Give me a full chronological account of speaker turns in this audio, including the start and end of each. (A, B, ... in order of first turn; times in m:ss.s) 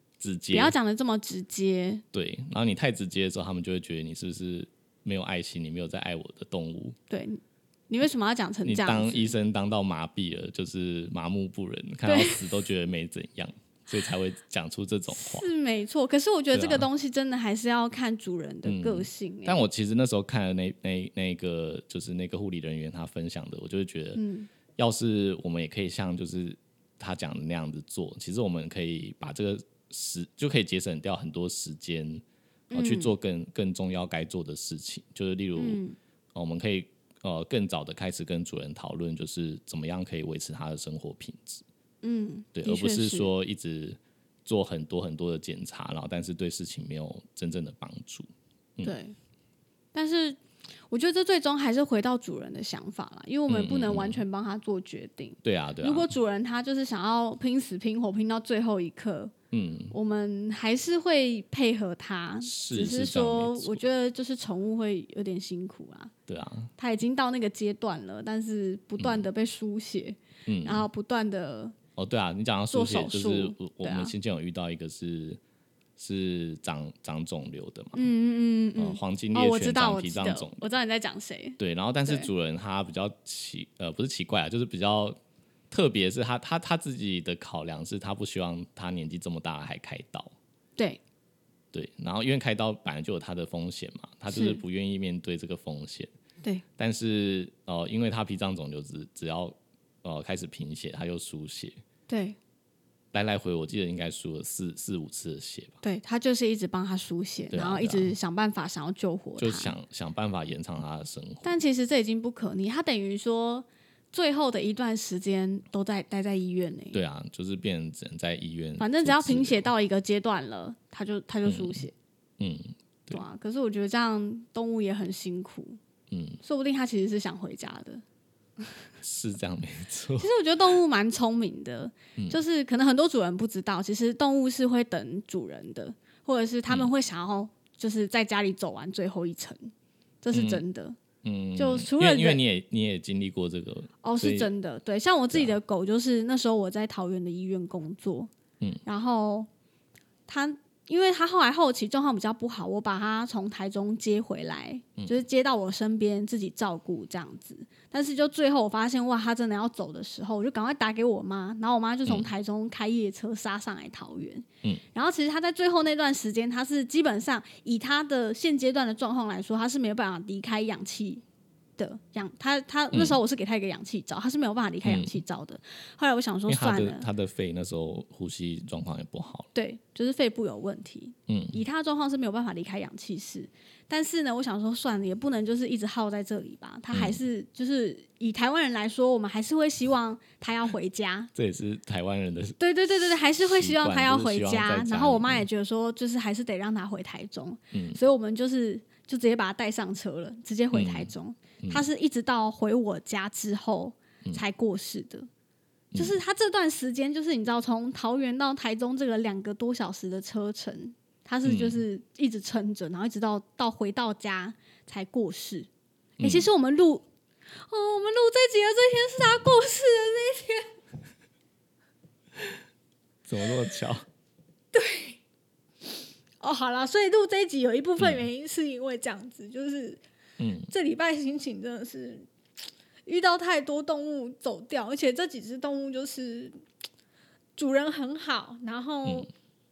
0:00.2-0:00.8 A
0:00.5-0:02.0 B
0:02.1-0:07.0 A
0:07.1-0:09.3 B
0:08.6-0:15.5 A
0:12.0-0:12.5 B
0:15.1-0:19.6 B
0:16.5-0:16.9 A
0:18.6-0:24.2 A
0:24.2-0:24.5 B
0:24.8-0:35.8 A
0:32.7-0:33.1 B
0:35.6-0:36.0 B
0:36.4-0:41.6 A
0:42.0-0:43.3 B
0:42.6-0:48.9 A
0:48.8-0:49.2 B
0:49.9-0:59.3 B
0:53.5-0:54.2 A
0:55.4-0:56.1 A
0:59.5-1:00.0 A
0:59.9-1:06.1 B
1:02.4-1:03.9 A
1:06.3-1:06.7 A
1:06.8-1:11.8 B
1:09.0-1:09.3 A
1:10.5-1:10.9 A
1:12.0-1:15.4 A
1:12.7-1:14.1 B
1:16.0-1:18.1 A
1:18.0-1:22.3 B
1:18.8-1:20.6 A
1:21.6-1:25.2 A
1:25.7-1:30.3 A
1:31.7-1:36.1 A
1:34.3-1:34.6 B
1:36.8-1:41.8 A
1:42.1-1:42.4 B
1:43.1-1:45.8 A
1:45.8-1:49.8 B
1:47.5-1:48.2 A
1:49.4-1:51.6 A
1:51.4-1:57.0 B
1:56.9-1:59.7 A
1:58.8-2:01.9 B
2:01.4-2:01.8 A
2:02.4-2:03.2 A
2:03.1-2:05.8 B
2:06.1-2:06.4 A
2:06.4-2:08.0 B
2:09.0-2:10.3 A
2:10.2-2:19.7 B
2:20.2-2:21.0 B
2:20.3-2:20.6 A
2:21.2-2:24.5 A
2:21.6-2:22.4 B
2:24.0-2:28.3 B
2:28.8-2:29.5 B
2:30.3-2:51.2 B
2:51.8-2:57.1 B
2:52.9-2:53.2 A
2:54.8-2:55.2 A
2:56.5-2:59.5 A
2:59.5-3:11.3 B
3:01.3-3:01.6 A
3:06.9-3:07.2 A
3:11.4-3:12.6 A
3:12.6-3:25.3 B
3:13.1-3:15.5 A
3:17.7-3:18.0 A
3:20.7-3:21.1 A
3:25.9-3:26.2 A
3:26.0-3:35.7 B
3:31.4-3:31.8 A
3:36.2-3:36.5 A
3:36.2-3:37.1 B
3:37.7-3:40.7 B
3:43.3-3:44.0 A
3:44.7-3:45.2 B
3:46.4-3:50.0 B
3:48.0-3:48.2 A
3:50.4-3:50.7 A
3:50.7-3:52.3 B
3:53.1-3:56.5 B
3:57.6-3:59.3 B